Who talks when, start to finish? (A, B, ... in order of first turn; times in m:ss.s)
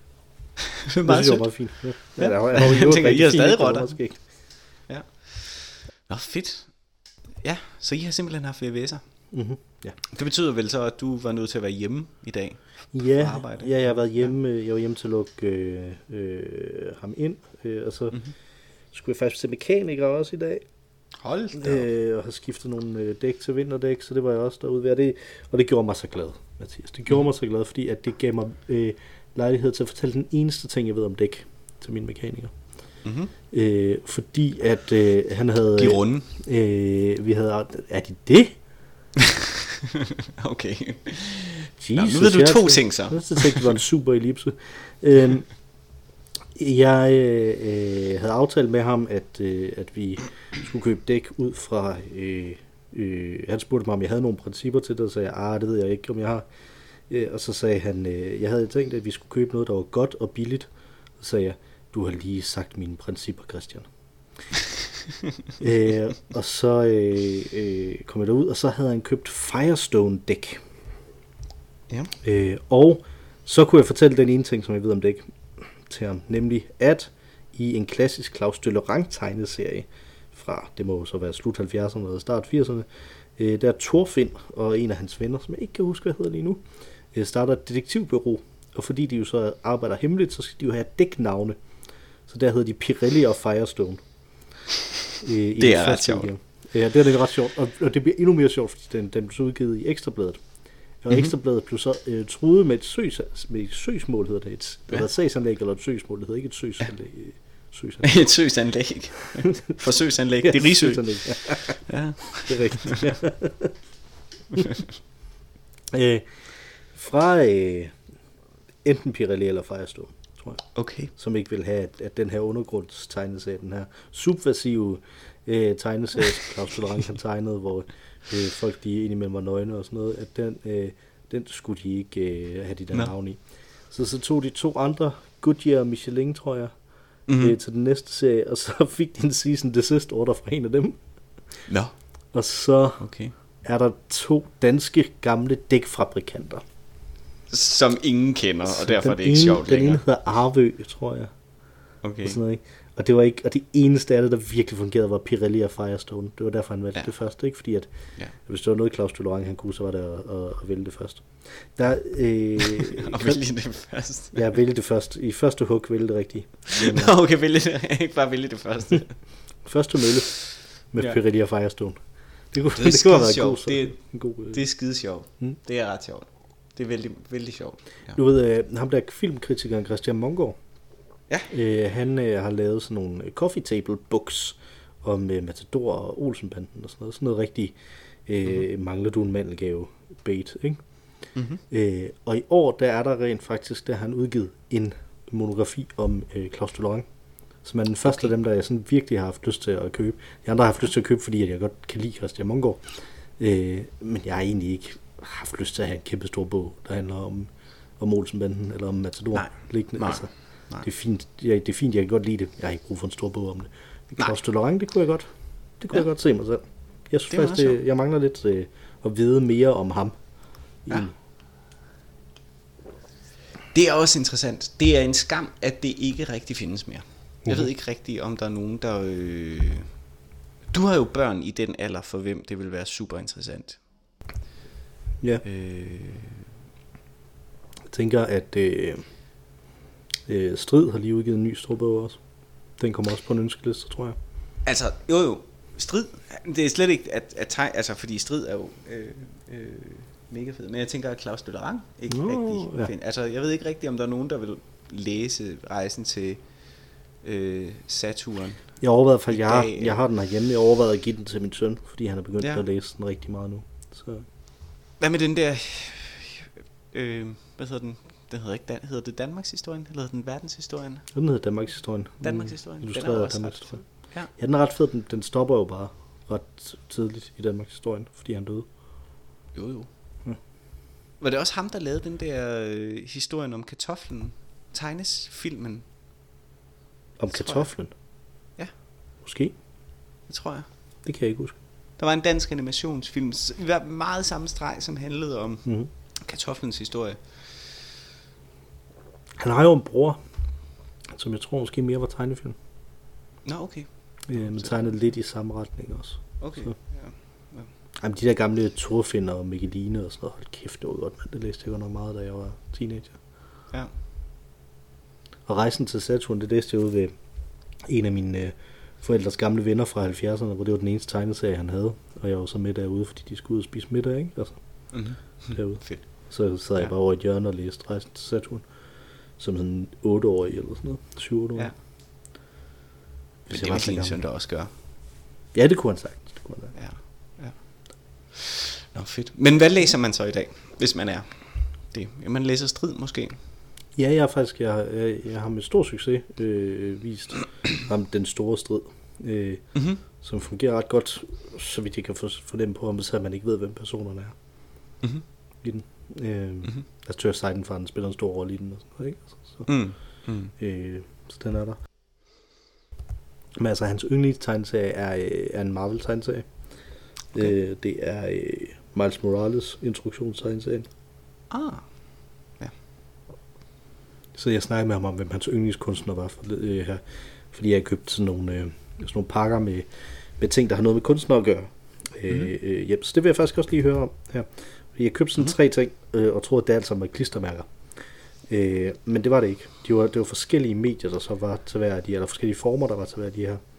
0:00.9-0:09.3 A
0:01.0-0:04.3 B
0:09.3-0:10.0 B
0:10.1-0:14.3 A
0:12.9-0:20.7 B
0:21.2-0:21.8 A
0:21.6-0:38.6 B
0:33.0-0:33.3 A
0:35.8-0:36.3 A
0:40.4-0:43.7 A
0:41.8-0:45.8 B
0:46.5-0:56.4 B
0:57.1-1:03.9 B
1:05.6-1:10.6 B
1:12.2-1:31.6 B
1:32.3-1:34.0 B
1:35.2-1:48.3 B
1:35.6-1:36.3 A
1:48.0-1:53.0 A
1:50.4-1:53.7 B
1:55.9-1:58.0 B
1:58.8-2:21.0 B
2:00.7-2:01.1 A
2:17.3-2:17.6 A
2:21.7-2:22.0 A
2:22.3-2:26.6 B
2:23.0-2:23.3 A
2:27.5-2:30.0 A
2:28.7-2:43.4 B
2:32.0-2:32.4 A
2:42.8-2:44.6 A
2:44.3-2:47.1 B
2:46.8-2:49.3 A
2:49.6-2:54.6 B
2:52.8-2:58.2 A
2:58.1-3:00.6 B
3:01.5-3:11.0 B
3:11.3-3:11.6 A
3:11.7-3:41.1 B
3:29.3-3:30.9 A
3:37.3-3:37.8 A
3:43.7-3:50.0 A
3:47.4-3:47.7 B
3:50.7-3:53.8 A
3:55.4-3:56.4 A
3:57.9-3:59.0 B
4:00.3-4:04.2 B
4:04.6-4:20.0 A
4:12.1-4:12.9 B
4:18.8-4:24.2 B
4:22.4-4:22.6 A
4:25.0-4:31.1 A
4:31.1-4:38.7 B
4:32.2-4:34.3 A
4:39.5-4:39.9 A
4:41.2-4:45.8 A
4:47.2-4:47.9 B
4:47.3-4:47.7 A
4:49.2-4:49.5 B
4:50.3-4:50.7 A
4:51.0-4:51.5 B
4:52.0-4:57.6 A
4:59.4-5:00.2 B
5:01.1-5:02.6 B
5:03.4-5:05.0 A
5:04.3-5:06.7 B
5:06.4-5:07.7 A
5:08.0-5:13.2 B
5:15.4-5:17.2 B
5:17.7-5:28.7 B
5:24.9-5:26.9 A
5:29.3-5:31.7 B
5:33.4-5:34.2 B
5:33.5-5:34.7 A
5:35.5-5:36.8 B
5:36.7-5:43.4 A
5:44.0-5:54.4 B
5:49.7-5:50.0 A
5:55.6-5:59.7 B
5:59.6-6:00.5 A
6:00.5-6:01.8 B
6:03.6-6:06.5 B
6:07.3-6:10.8 B
6:11.5-6:11.9 A
6:14.3-6:27.7 B
6:28.5-6:33.6 B